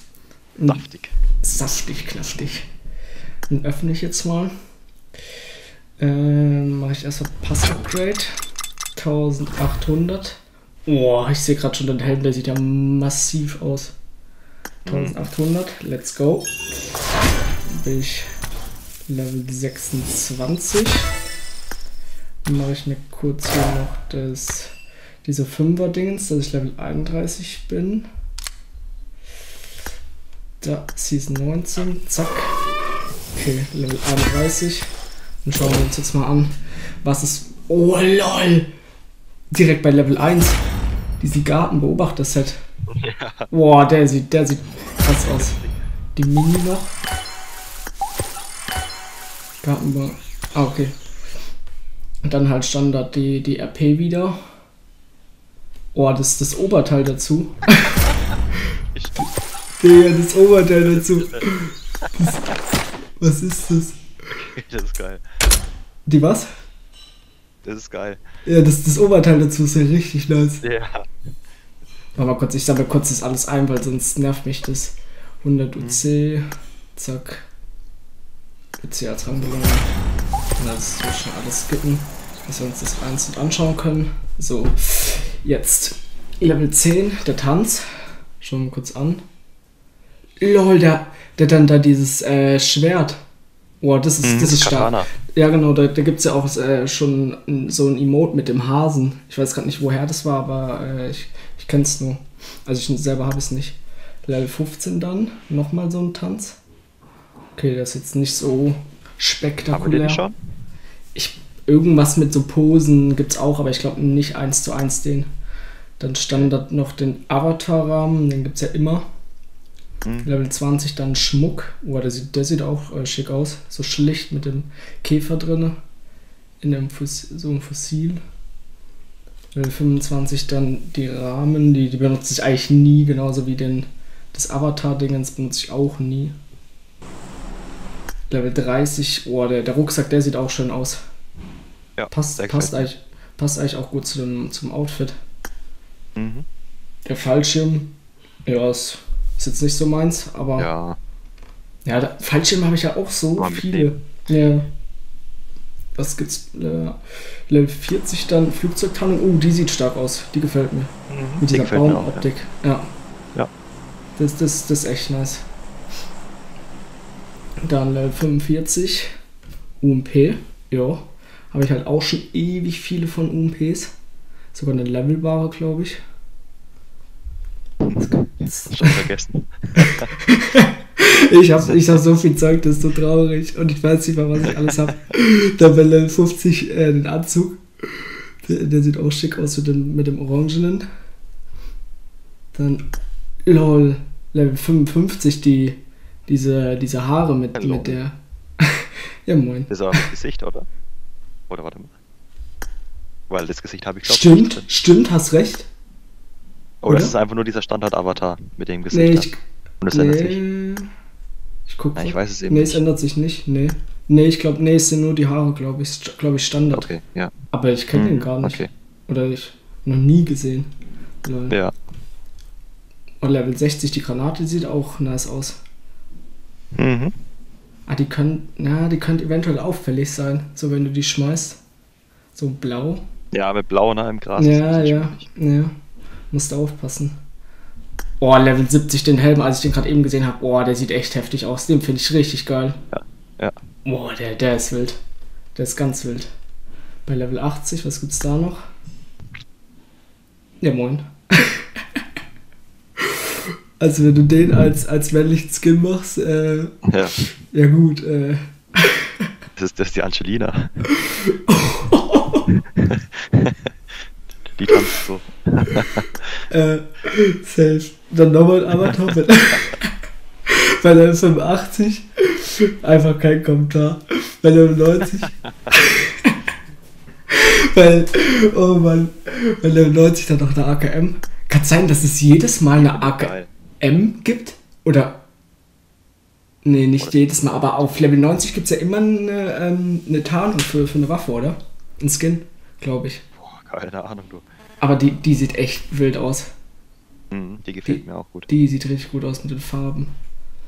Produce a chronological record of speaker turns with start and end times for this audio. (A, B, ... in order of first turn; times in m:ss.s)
0:00.6-0:00.8 A
0:00.7-0:01.2 B
0:01.4-0:02.7 A
0:03.5-0:04.5 A
0:06.0-0:08.3 A
0:09.0-0:14.0 A
0:14.8-0:15.2 B
0:14.9-0:16.6 A
0:17.7-0:18.3 A
0:19.1-0:21.1 A
0:22.4-0:28.1 A
0:30.6-0:32.6 A
0:33.3-0:34.9 A
0:35.4-0:38.7 A
0:39.5-0:40.6 A
0:41.2-0:42.6 A
0:42.9-0:43.5 B
0:43.5-0:45.6 A
0:45.3-0:45.7 B
0:46.2-0:47.0 A
0:49.6-0:51.0 A
0:52.2-0:54.4 A
0:55.9-0:57.9 A
0:58.9-0:59.3 B
0:59.8-1:02.4 A
1:00.9-1:01.5 B
1:03.2-1:04.0 A
1:04.3-1:05.2 B
1:06.1-1:06.5 A
1:07.6-1:08.2 B
1:08.4-1:10.6 A
1:10.6-1:11.1 B
1:12.2-1:16.4 A
1:15.8-1:16.0 B
1:17.0-1:17.5 A
1:18.8-1:19.9 A
1:20.6-1:29.2 A
1:30.4-1:33.2 A
1:33.8-1:46.6 A
1:34.2-1:35.1 B
1:47.6-1:50.2 A
1:49.7-1:50.4 B
1:51.2-1:55.3 A
1:56.0-1:59.1 A
2:00.0-2:00.3 B
2:00.2-2:05.8 A
2:06.6-2:08.2 A
2:09.6-2:16.4 A
2:18.3-2:21.0 A
2:22.0-2:22.9 B
2:22.1-2:25.2 A
2:26.2-2:26.5 B
2:27.1-2:30.7 A
2:30.6-2:31.0 B
2:31.8-2:34.7 A
2:33.4-2:34.0 B
2:36.0-2:42.9 A
2:41.1-2:42.3 B
2:44.2-2:45.5 A
2:47.6-2:49.1 A
2:49.8-2:53.9 A
2:54.5-2:56.0 A
2:57.9-2:58.2 B
2:58.0-2:59.0 A
2:58.7-3:00.1 B
2:59.8-3:10.9 A
3:12.5-3:12.9 A
3:13.5-3:20.1 A
3:17.6-3:18.0 B
3:19.7-3:20.7 B
3:21.5-3:21.9 B
3:23.3-3:24.7 B
3:24.0-3:25.7 A
3:26.8-3:29.3 B
3:26.9-3:27.1 A
3:28.9-3:30.9 A
3:29.8-3:30.4 B
3:31.7-3:36.9 A
3:32.0-3:32.8 B
3:36.7-3:37.3 B
3:37.5-3:40.7 A
3:37.9-3:38.7 B
3:41.2-3:41.6 A
3:43.2-3:45.6 A
3:46.8-3:47.1 B
3:47.9-3:51.6 A
3:52.3-3:53.0 A
3:53.3-3:55.3 B
3:54.4-3:55.7 A
3:56.3-3:57.2 A
3:58.2-4:02.8 A
4:02.9-4:03.6 B
4:03.8-4:05.0 A
4:05.6-4:06.3 A
4:07.1-4:08.6 A
4:10.6-4:12.0 A
4:13.0-4:16.8 A
4:16.9-4:17.2 B
4:17.5-4:19.2 A
4:19.6-4:20.7 B
4:20.9-4:22.4 A
4:22.5-4:23.7 B
4:24.6-4:26.3 B
4:26.5-4:29.9 A
4:30.5-4:36.4 A
4:37.3-4:45.2 A
4:42.8-4:43.5 B
4:46.6-4:53.2 A
4:47.0-4:47.9 B
4:53.4-4:54.4 B
4:54.8-4:56.5 A
4:57.3-4:58.5 B
4:57.9-5:00.1 A